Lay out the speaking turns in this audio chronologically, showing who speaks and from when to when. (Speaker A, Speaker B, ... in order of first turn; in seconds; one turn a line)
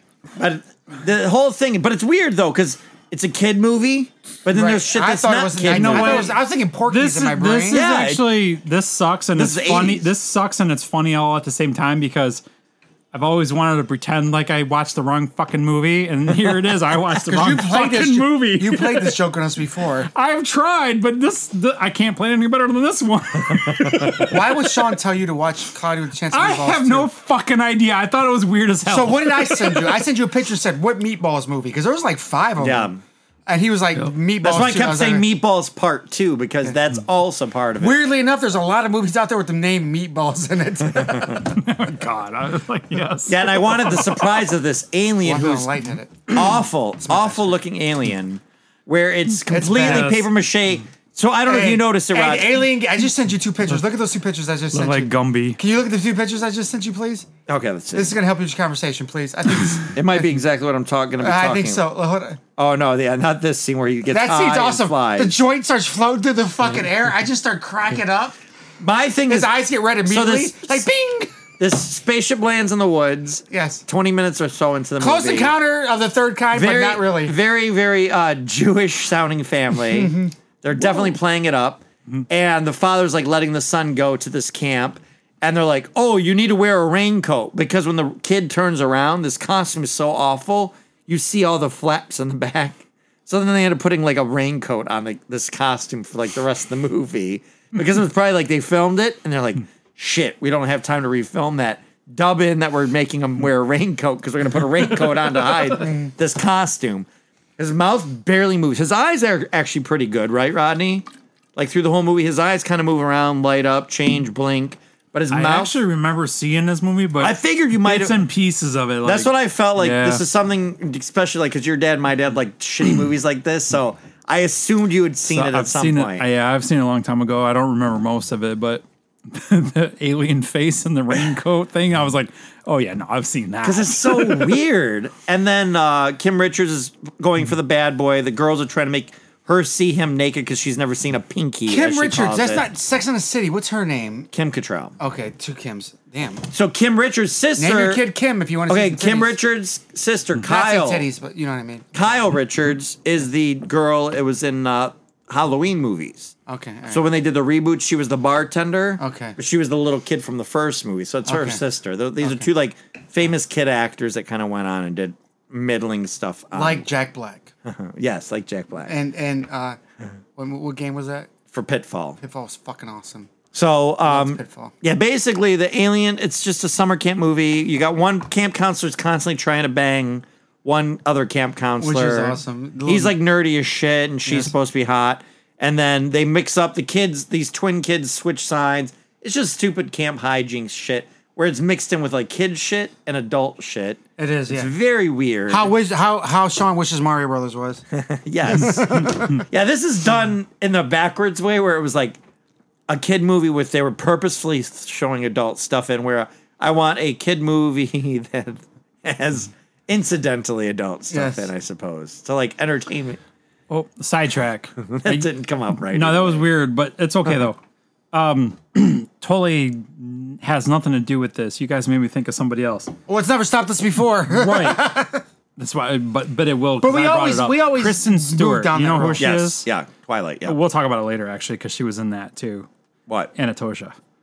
Speaker A: 0.3-6.3
Speaker B: 4.5-7.8
Speaker C: 5.6-12.4
Speaker A: 7.7-8.2
Speaker A: 9.3-10.1
Speaker C: 13.1-19.2
Speaker B: 17.2-20.1
Speaker C: 20.1-24.9
Speaker B: 24.2-27.1
Speaker C: 26.3-30.0
Speaker B: 28.9-32.9
Speaker A: 32.6-33.0
Speaker B: 33.5-35.3
Speaker A: 34.4-38.0
Speaker B: 37.8-41.6
Speaker C: 41.3-44.4
Speaker A: 43.2-45.7
Speaker B: 45.2-47.6
Speaker A: 46.3-52.6
Speaker B: 49.5-50.2
Speaker C: 49.7-50.2
Speaker B: 51.5-57.3
Speaker C: 54.7-55.6
Speaker A: 57.5-58.1
Speaker B: 57.9-60.2
Speaker A: 59.9-61.8
Speaker B: 61.2-62.4
Speaker A: 62.5-65.3
Speaker B: 64.1-68.4
Speaker A: 68.8-70.9
Speaker B: 69.3-71.3
Speaker A: 71.6-75.5
Speaker B: 73.5-73.8
Speaker B: 75.0-77.3
Speaker A: 76.5-107.1
Speaker B: 79.9-80.3
Speaker B: 105.8-106.1
Speaker A: 107.6-115.7
Speaker C: 115.3-120.2
Speaker A: 117.2-118.2
Speaker A: 119.0-126.2
Speaker C: 125.3-134.6
Speaker A: 133.6-142.6
Speaker B: 141.7-144.3
Speaker A: 144.3-144.9
Speaker B: 145.0-146.5
Speaker A: 146.5-148.0
Speaker B: 147.6-149.4
Speaker A: 148.7-151.1
Speaker B: 150.4-152.0
Speaker A: 151.9-156.3
Speaker B: 156.5-157.0
Speaker A: 156.9-166.8
Speaker B: 159.0-159.4
Speaker B: 161.2-161.6
Speaker B: 162.2-162.5
Speaker B: 166.5-167.5
Speaker A: 167.6-168.9
Speaker B: 168.8-169.8
Speaker B: 170.3-171.3
Speaker A: 171.5-172.2
Speaker B: 172.2-173.3
Speaker A: 173.5-195.7
Speaker B: 174.1-174.7
Speaker B: 181.8-183.2
Speaker B: 184.2-184.5
Speaker B: 194.2-194.7
Speaker B: 195.5-197.8
Speaker A: 197.9-202.2
Speaker B: 198.5-199.4
Speaker A: 202.9-213.2
Speaker B: 211.1-211.5
Speaker C: 213.7-217.6
Speaker A: 214.8-216.5
Speaker C: 218.1-222.9
Speaker B: 223.1-225.2
Speaker C: 224.3-224.9
Speaker C: 225.6-229.7
Speaker B: 226.8-229.2
Speaker A: 229.2-230.6
Speaker C: 230.4-232.7
Speaker C: 233.3-233.9